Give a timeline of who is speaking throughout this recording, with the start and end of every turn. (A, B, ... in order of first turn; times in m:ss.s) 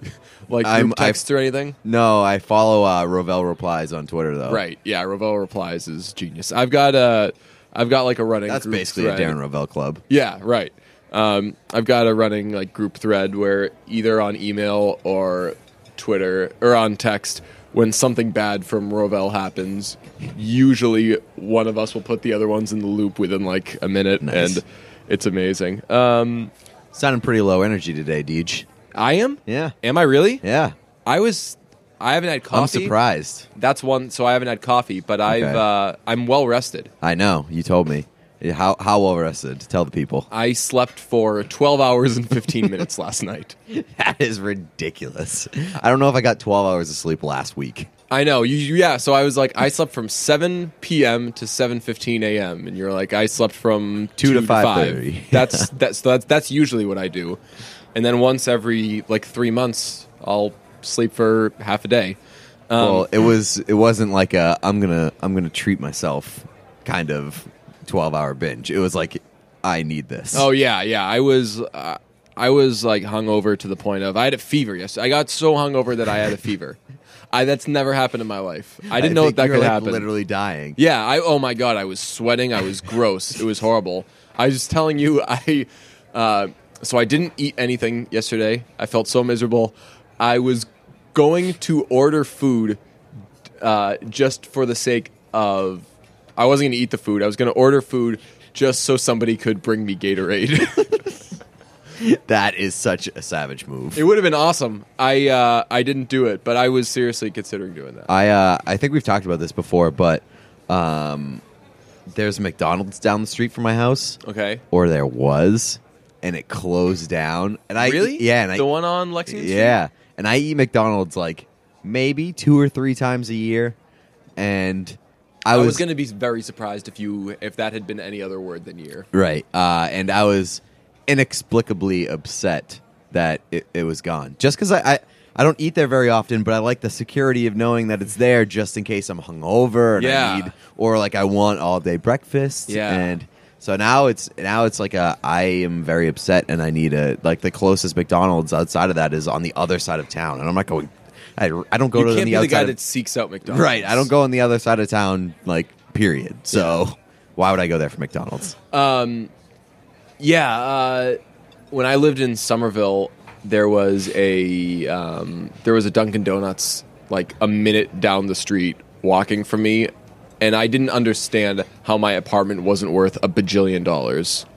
0:00.5-0:01.8 A
0:00.6-0:01.2 B
0:01.8-0:04.6 B
0:04.5-0:09.4 A
0:08.5-0:10.0 B
0:10.1-0:26.5 A
0:24.2-0:24.6 B
0:26.9-0:28.7 B
0:28.9-0:30.4 A
0:29.5-0:29.7 B
0:30.4-0:30.7 B
0:31.0-0:32.9 A
0:32.5-0:33.5 B
0:33.5-0:36.9 A
0:35.3-0:35.6 B
0:37.0-0:40.3 B
0:40.3-0:43.6 A
0:43.7-0:47.9 B
0:48.1-0:57.4 A
0:54.2-0:55.7 B
0:57.9-1:02.2 A
1:02.7-1:03.1 A
1:02.8-1:10.5 B
1:10.3-1:16.8 A
1:17.3-1:20.1 A
1:18.9-1:20.8 B
1:20.8-1:32.8 A
1:33.6-1:41.1 A
1:42.0-1:44.0 B
1:43.9-1:48.1 A
1:48.1-1:51.4 B
1:52.1-1:54.2 B
1:54.2-1:54.6 A
1:54.7-1:58.7 B
1:57.8-1:59.8 A
1:59.2-2:03.8 B
2:04.4-2:05.8 B
2:05.5-2:09.1 A
2:09.1-2:32.8 B
2:20.0-2:20.5 A
2:22.7-2:23.2 A
2:31.9-2:34.1 A
2:33.5-2:38.6 B
2:38.7-2:39.3 A
2:40.2-2:41.2 A
2:41.7-2:54.4 A